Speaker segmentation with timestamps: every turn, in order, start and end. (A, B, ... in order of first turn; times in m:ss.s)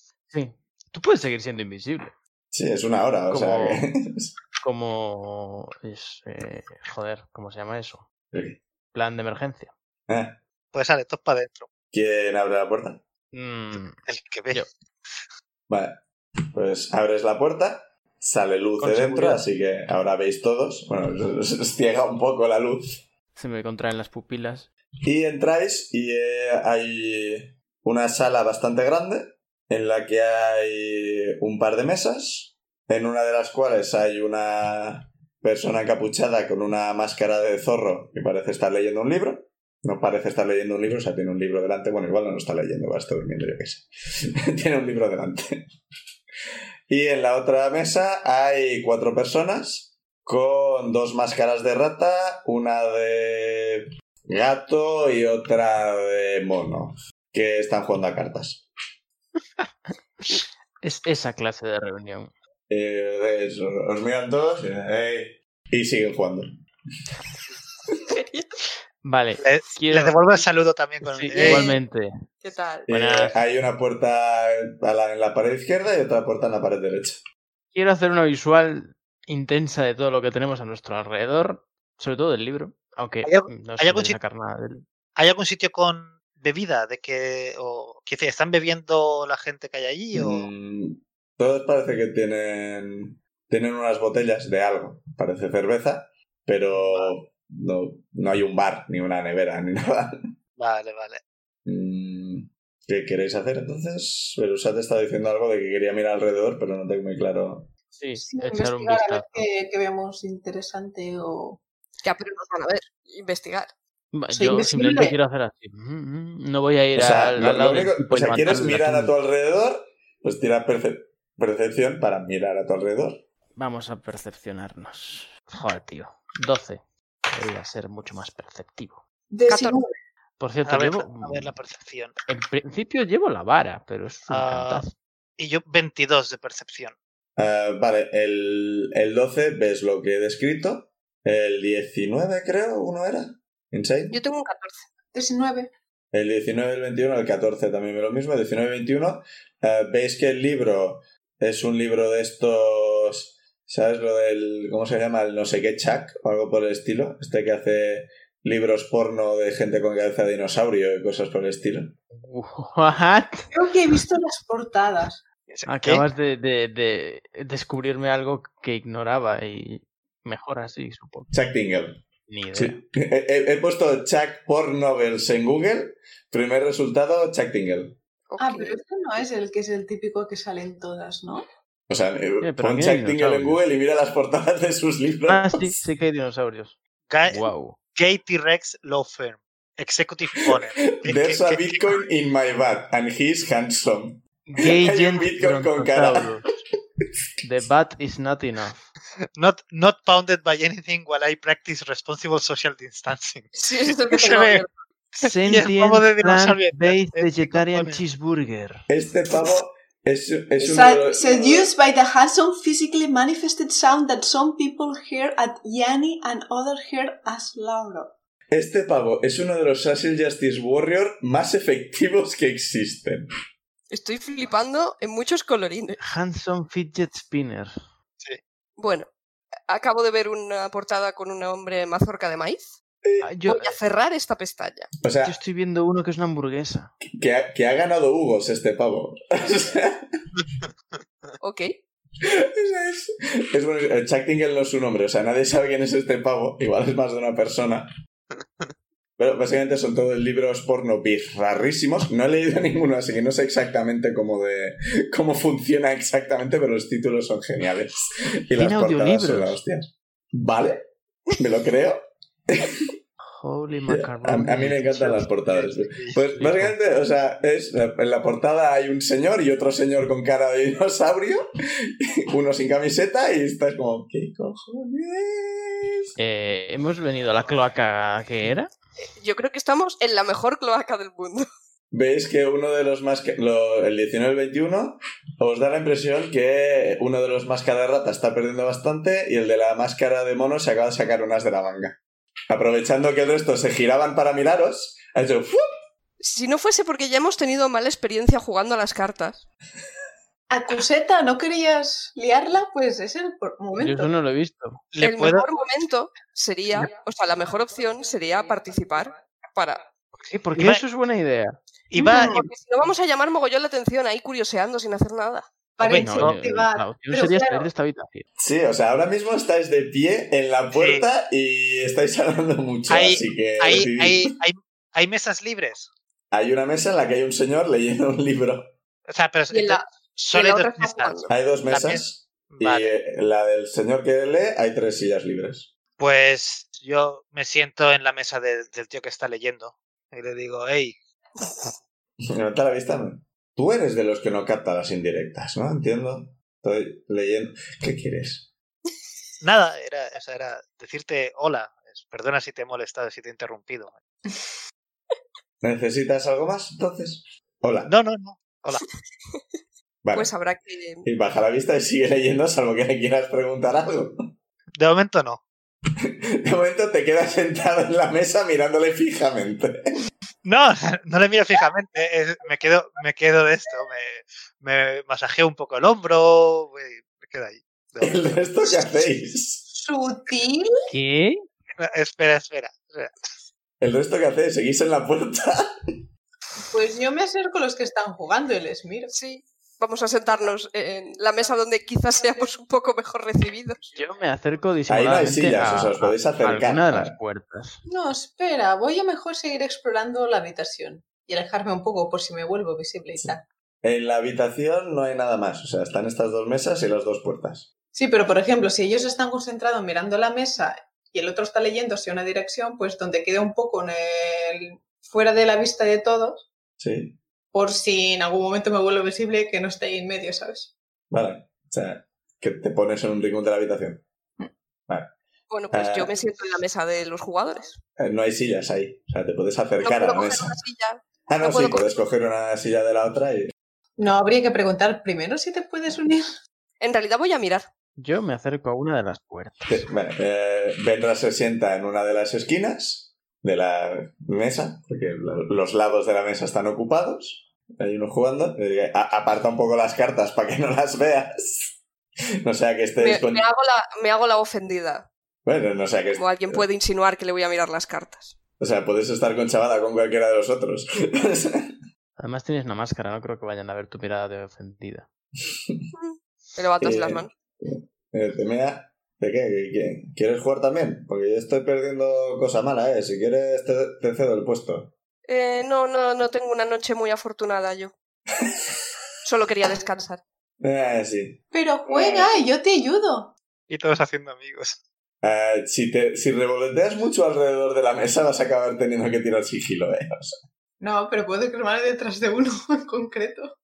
0:00.3-0:02.1 A
0:02.5-0:04.3 B
0:03.3-0:03.8 A
0:04.6-0:08.0 A
0:08.3-0:08.6 B
0:08.9-0:09.7 A
0:10.1-0:10.4 B
0:10.7-0:11.7 C
0:11.9-0:13.0 B
0:13.3-0:14.0 A
0:14.1-0:14.6 C
0:15.7-0:16.0 B
0:16.5-0:22.8 B
0:18.8-0:19.4 A
0:23.3-0:24.7 A
0:25.0-0:45.7 B
0:46.9-0:58.6 B
1:00.2-1:02.3 A
1:02.7-1:06.5 B
1:08.1-1:08.5 D
1:09.0-1:10.3 A
1:09.4-1:11.8 C
1:11.0-1:12.1 A
1:11.3-1:11.8 D
1:12.4-1:12.9 D
1:12.9-1:17.2 B
1:12.9-1:13.4 A
1:17.7-1:24.8 A
1:23.2-1:24.2 C
1:25.2-1:30.5 C
1:30.1-1:40.2 B
1:36.7-1:37.1 C
1:40.6-1:41.2 C
1:41.6-1:47.7 B
1:48.0-1:49.5 A
1:48.2-1:51.6 E
1:52.0-1:53.7 D
1:54.1-1:59.1 A
1:54.3-1:55.2 E
1:56.9-2:03.2 B
2:03.6-2:06.8 A
2:07.3-2:09.0 A
2:09.3-2:09.9 E
2:09.5-2:09.8 D
2:10.4-2:11.5 A
2:10.6-2:12.2 C
2:12.3-2:14.9 A
2:14.3-2:14.9 C
2:15.4-2:17.0 C
2:17.4-2:24.2 B
2:24.1-2:24.8 D
2:25.1-2:25.7 E
2:26.1-2:41.9 B
2:42.1-2:43.5 A
2:43.5-2:45.2 E
2:45.5-2:46.0 C
2:45.6-2:51.3 A
2:51.3-2:52.0 B
2:52.3-2:52.8 A
2:52.5-2:58.0 B
2:58.3-2:58.8 D
2:58.4-3:01.4 E
3:01.9-3:05.7 B
3:02.4-3:03.6 A
3:05.3-3:07.8 A
3:07.1-3:11.9 C
3:10.5-3:16.2 B
3:14.4-3:16.5 A
3:17.4-3:18.9 A
3:19.4-3:24.6 C
3:23.5-3:24.7 D
3:25.2-3:28.0 C
3:25.2-3:28.8 A
3:28.9-3:31.7 B
3:30.6-3:38.1 E
3:38.5-3:43.3 B
3:43.9-3:46.0 D
3:46.0-3:47.7 A
3:48.8-3:49.1 D
3:49.7-3:52.7 D
3:53.0-3:53.3 B
3:53.2-3:53.7 A
3:53.5-3:54.9 D
3:55.0-3:55.4 B
3:55.2-3:56.9 A
3:57.1-4:00.1 B
4:01.4-4:01.7 D
4:02.2-4:07.9 B
4:09.2-4:20.8 B
4:18.6-4:19.6 A
4:21.4-4:22.9 B
4:23.2-4:25.7 A
4:23.9-4:31.4 B
4:25.6-4:26.2 C
4:26.4-4:26.7 A
4:32.0-4:36.1 B
4:36.2-4:38.7 A
4:39.2-4:41.5 D
4:41.9-4:52.0 B
4:52.5-4:55.6 B
4:56.2-4:59.4 D
5:00.5-5:04.1 E
5:03.8-5:04.8 A
5:04.9-5:05.5 C
5:05.0-5:09.8 D
5:10.2-5:11.6 A
5:10.6-5:10.8 C
5:11.9-5:12.4 C
5:12.0-5:12.4 E
5:12.1-5:15.5 D
5:15.8-5:17.7 E
5:15.8-5:16.4 C
5:15.9-5:18.3 A
5:18.4-5:24.3 B
5:20.7-5:21.0 C
5:22.9-5:25.9 C
5:26.3-5:28.7 B
5:29.1-5:32.9 C
5:29.5-5:31.3 D
5:31.3-5:35.7 B
5:36.0-5:41.0 C
5:42.2-5:48.5 B
5:49.4-5:54.0 C
5:55.6-5:57.9 B
5:57.9-5:58.8 C
6:00.0-6:00.3 B
6:00.1-6:01.0 D
6:01.0-6:04.1 B
6:04.8-6:05.4 C
6:06.0-6:09.8 B
6:10.4-6:18.4 C
6:18.0-6:19.6 B
6:19.7-6:20.7 E
6:20.9-6:21.4 A
6:21.8-6:23.3 C
6:23.8-6:26.0 B
6:26.7-6:29.1 E
6:29.1-6:33.8 D
6:33.9-6:37.8 A
6:34.9-6:37.2 B
6:37.9-6:43.4 E
6:43.2-6:47.7 B
6:47.9-6:56.5 E
6:56.8-6:57.2 B
6:57.5-7:00.7 E
7:01.1-7:04.0 B
7:05.5-7:07.8 D
7:05.7-7:06.1 B
7:08.0-7:10.5 B
7:09.8-7:11.8 D
7:11.3-7:13.5 B
7:14.0-7:16.4 E
7:16.8-7:17.7 D
7:18.0-7:19.8 A
7:19.7-7:31.8 B
7:32.4-7:33.4 B
7:33.0-7:35.1 D
7:35.4-7:36.6 B
7:36.2-7:38.4 D
7:38.6-7:41.7 B
7:42.2-7:45.1 A
7:45.5-7:45.8 B
7:46.0-7:47.3 D
7:46.8-7:54.9 B
7:55.3-7:57.9 D
7:58.4-7:58.7 B
7:59.2-8:00.2 D
8:00.6-8:02.3 B
8:01.5-8:03.3 E
8:03.7-8:04.8 C
8:05.2-8:10.4 B
8:10.8-8:13.5 E